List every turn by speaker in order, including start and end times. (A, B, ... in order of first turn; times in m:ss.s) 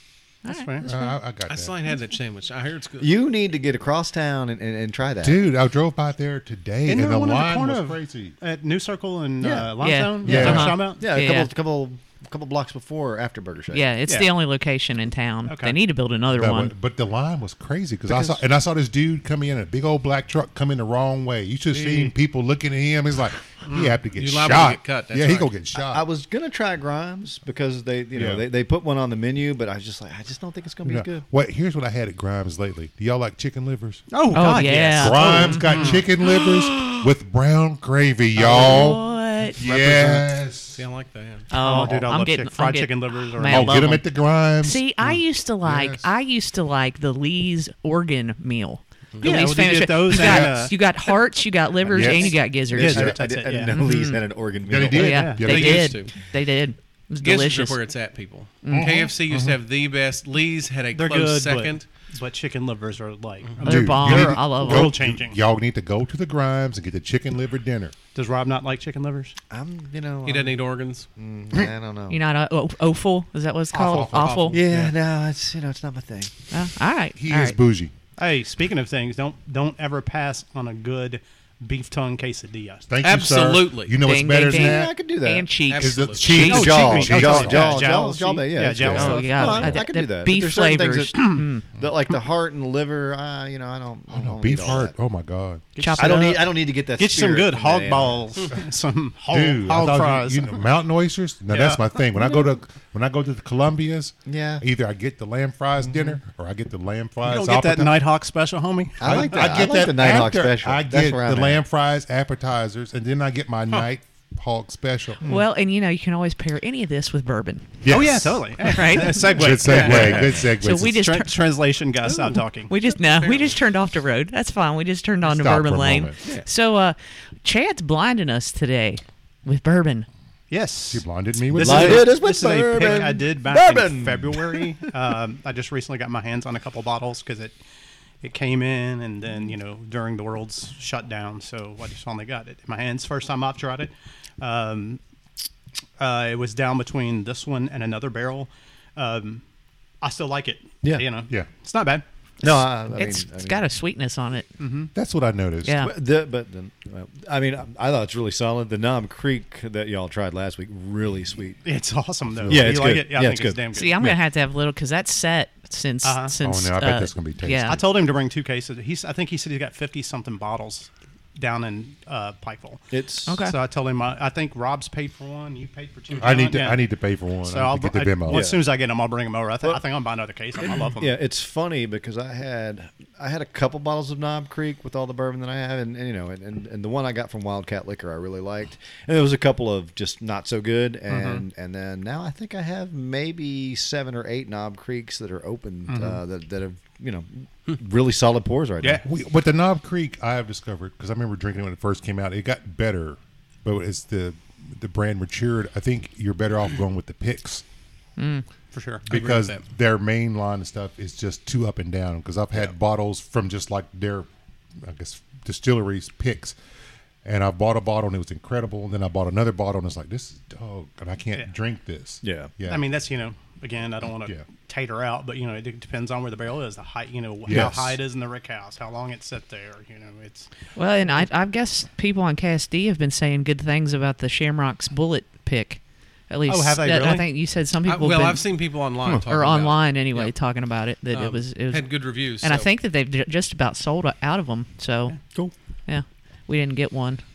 0:00.4-0:00.8 A
0:00.5-0:00.9 B
0:00.8-0:01.8 C
0:01.5-0:03.1 D
0:03.0-0:05.4 E
0:05.2-0:08.4 C
0:06.9-0:11.0 B
0:09.4-0:13.9 E
0:09.8-0:11.5 A
0:10.2-0:10.8 C
0:13.7-0:16.7 A
0:15.5-0:15.8 B
0:16.4-0:26.0 C
0:18.1-0:18.4 E
0:24.1-0:25.5 D
0:25.8-0:31.3 E
0:28.1-0:28.4 C
0:30.8-0:34.0 C
0:34.1-0:36.0 B
0:34.3-0:37.0 A
0:34.7-0:39.0 C
0:38.4-0:40.3 B
0:38.4-0:39.6 A
0:39.6-0:40.8 C
0:40.8-0:41.5 D
0:41.5-0:44.0 A
0:41.5-0:44.0 B
0:43.4-0:46.1 C
0:44.6-0:53.2 A
0:49.2-0:50.8 B
0:50.1-0:50.7 C
0:51.9-0:52.4 C
0:52.0-0:53.9 B
0:52.7-0:55.1 E
0:53.8-0:54.2 A
0:54.7-0:56.0 C
0:54.9-0:57.8 A
0:55.0-0:56.0 B
0:55.5-0:56.1 D
0:57.2-1:01.8 D
0:58.6-0:58.9 A
0:58.7-0:59.6 C
1:00.9-1:05.4 B
1:03.6-1:05.0 A
1:03.6-1:08.0 C
1:08.1-1:09.4 B
1:09.5-1:10.6 E
1:10.2-1:11.1 D
1:11.2-1:12.2 E
1:12.1-1:14.6 A
1:13.7-1:14.9 C
1:14.2-1:14.6 D
1:14.5-1:16.3 E
1:16.5-1:17.6 A
1:17.2-1:17.9 C
1:18.2-1:22.9 B
1:22.9-1:24.9 C
1:23.0-1:24.0 D
1:24.0-1:27.1 A
1:24.5-1:25.5 E
1:25.7-1:26.5 D
1:25.8-1:27.8 C
1:26.4-1:34.9 E
1:26.4-1:29.8 B
1:28.8-1:29.2 C
1:28.9-1:31.6 A
1:34.1-1:35.7 C
1:35.8-1:36.4 B
1:35.8-1:36.4 A
1:36.0-1:38.3 E
1:37.0-1:40.6 B
1:39.3-1:48.0 C
1:41.5-1:41.9 B
1:44.3-1:44.6 E
1:47.2-1:49.5 B
1:49.0-1:51.6 E
1:49.0-1:55.2 C
1:55.2-2:01.3 A
1:57.8-1:58.6 C
1:57.9-2:02.7 B
1:59.3-2:01.0 C
2:02.1-2:10.1 A
2:03.0-2:03.6 D
2:05.2-2:06.2 C
2:10.5-2:17.6 B
2:10.9-2:12.2 C
2:11.6-2:14.7 E
2:18.2-2:25.0 B
2:26.0-2:29.4 B
2:30.0-2:32.0 B
2:32.4-2:33.6 E
2:32.4-2:34.5 A
2:34.6-2:34.9 B
2:35.0-2:35.8 C
2:35.6-2:35.9 A
2:35.8-2:41.6 E
2:41.6-2:44.0 B
2:42.4-2:42.8 C
2:42.5-2:43.6 E
2:43.7-2:47.8 A
2:46.0-2:46.4 B
2:46.4-2:47.9 C
2:47.6-2:52.9 B
2:52.9-2:53.4 E
2:53.3-2:53.6 A
2:53.4-2:56.8 B
2:56.2-2:58.5 C
2:57.4-3:01.2 B
2:58.3-2:58.7 E
3:00.6-3:19.0 E
3:11.1-3:11.4 B
3:15.9-3:16.2 B
3:19.0-3:27.6 C
3:28.2-3:28.4 A
3:28.7-3:29.1 B
3:29.1-3:34.3 C
3:29.1-3:29.6 D
3:34.8-3:36.6 C
3:37.2-3:42.8 C
3:42.2-3:42.5 E
3:42.7-3:50.5 B
3:47.5-3:48.0 C
3:47.5-3:47.8 E
3:50.8-3:58.5 A
3:56.5-3:57.3 B
3:57.8-4:00.3 D
3:59.2-4:07.2 A
4:01.1-4:02.7 D